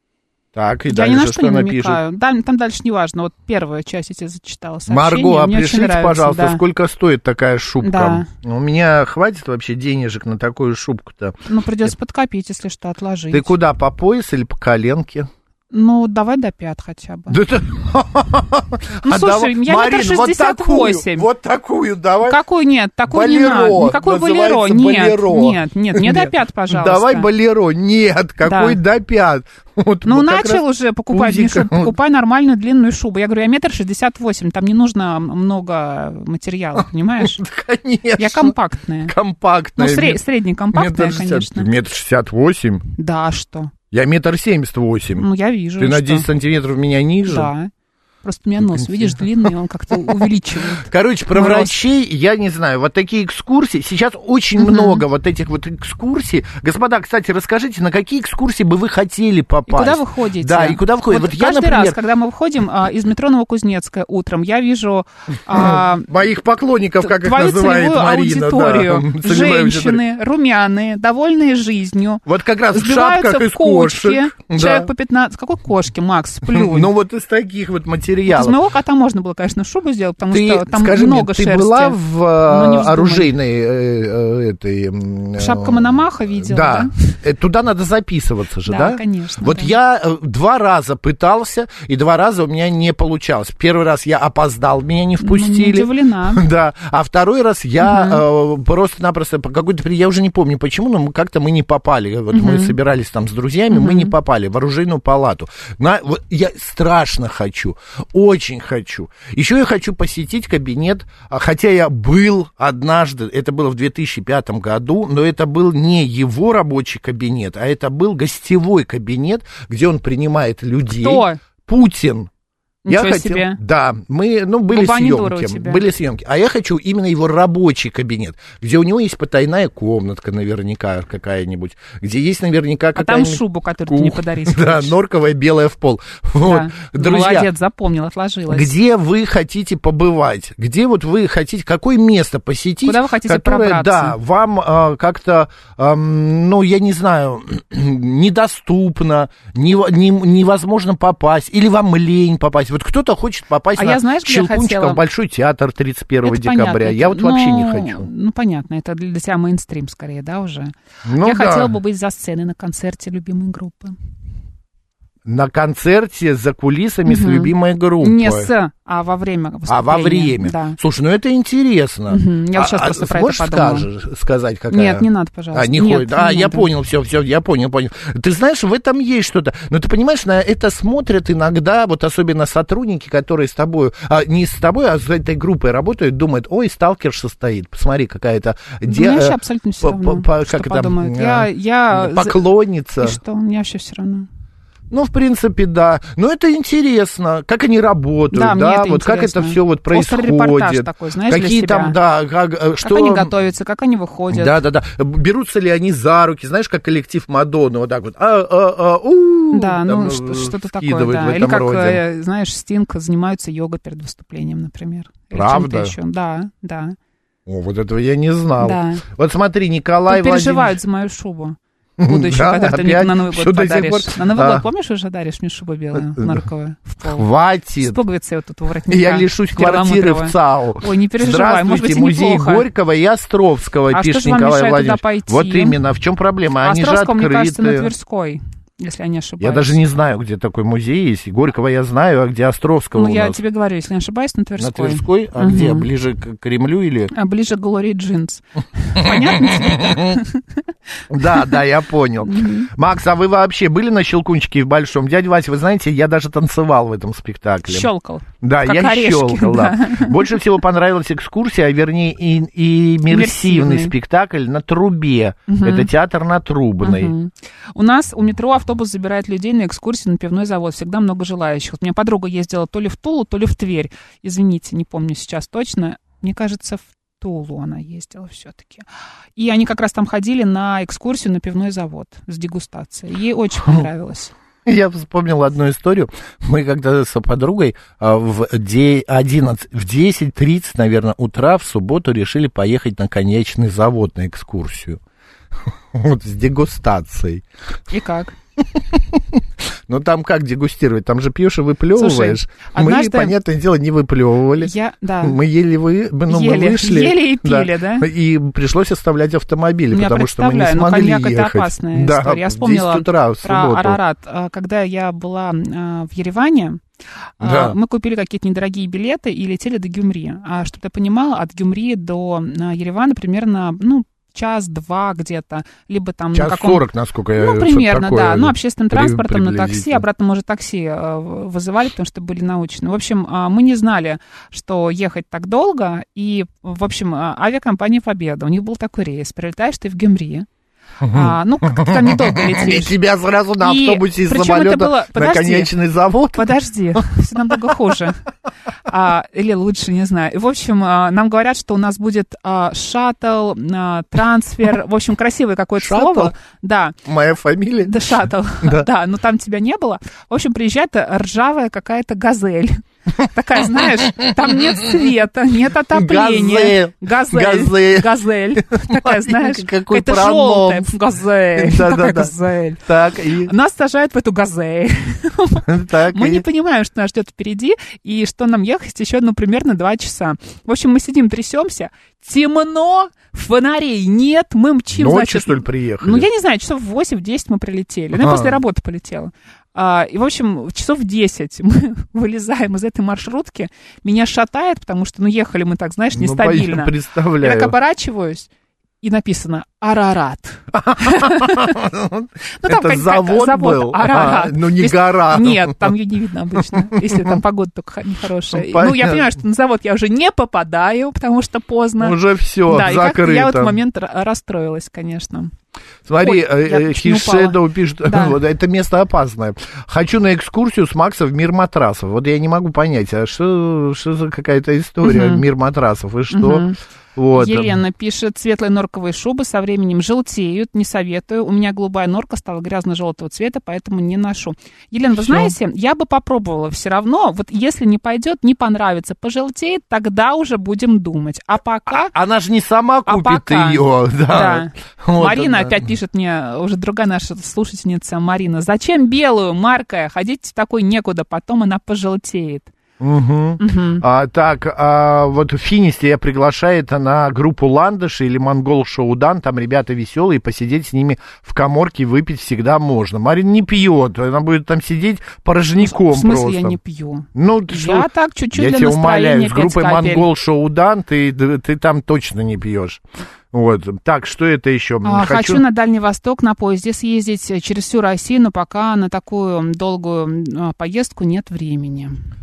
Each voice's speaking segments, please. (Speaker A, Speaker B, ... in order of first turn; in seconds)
Speaker A: 0.5-2.0, 4.9-11.3, 13.3-15.3, 17.3-22.4, 23.1-31.9, 37.2-40.2, 40.7-42.9, 43.9-45.2, 45.8-47.5, 48.6-50.2, 50.8-62.0, 65.5-70.0, 72.2-74.9, 76.5-78.6, 80.3-85.8, 86.4-122.3, 122.9-137.5, 138.5-158.1, 161.0-161.8, 165.2-168.5, 169.7-193.2, 194.9-203.3, 204.3-212.0, 215.3-215.9, 217.5-220.8, 222.0-224.6, 225.9-226.4, 227.0-228.0, 228.9-237.9, 239.4-243.4, 244.6-247.1, 249.0-250.2, 251.1-257.9, 258.4-267.1, 284.6-295.0, 295.9-297.4, 298.6-304.7, 305.2-314.0, 317.4-317.8, 326.3-330.0, 341.0-347.0, 355.8-356.3, 357.1-358.0, 365.9-370.9, 371.6-373.5, 375.6-376.4, 384.9-386.3, 388.2-388.6, 396.1-397.8, 400.7-405.9, 406.6-407.4, 408.5-409.2, 412.0-413.8, 416.1-427.8, 435.2-435.5, 441.9-445.8, 453.0-466.8, 467.3-475.6
Speaker B: 0.9-6.6, 7.8-8.3, 11.4-13.5, 15.7-17.4, 19.0-21.3, 22.2-27.3, 28.4-28.8, 30.1-37.4, 38.2-39.1, 39.8-41.7, 43.0-43.7, 45.2-46.3, 47.2-47.7, 48.2-51.8, 54.6-55.0, 59.7-66.1, 67.0-76.9, 78.3-83.3, 85.4-86.9, 88.7-89.7, 95.2-96.4, 97.8-98.2, 102.3-102.8, 103.7-104.1, 121.0-121.4, 122.8-123.6, 124.7-125.8, 132.9-134.9, 136.4-138.7, 142.8-144.2, 153.8-155.0, 156.2-163.9, 167.1-170.8, 172.1-173.9, 174.7-176.7, 188.9-192.4, 193.0-194.3, 198.3-202.0, 202.8-204.6, 209.5-217.0, 218.6-219.0, 220.1-227.2, 227.8-232.7, 233.9-235.8, 236.6-239.8, 242.9-245.9, 247.1-250.4, 252.2-252.7, 257.7-260.3, 263.1-263.9, 265.5-265.9, 266.8-284.3, 297.9-298.4, 301.9-303.3, 304.6-305.4, 306.3-308.1, 309.9-316.8, 317.4-326.8, 327.3-340.5, 341.1-342.9, 343.6-345.7, 346.3-348.2, 348.9-357.0, 357.8-372.8, 373.4-398.5, 399.0-401.8, 402.6-415.5, 416.2-418.4, 425.0-425.4, 426.3-426.8, 427.3-442.1, 443.1-452.7, 453.6-454.0, 465.8-470.3, 475.0-482.2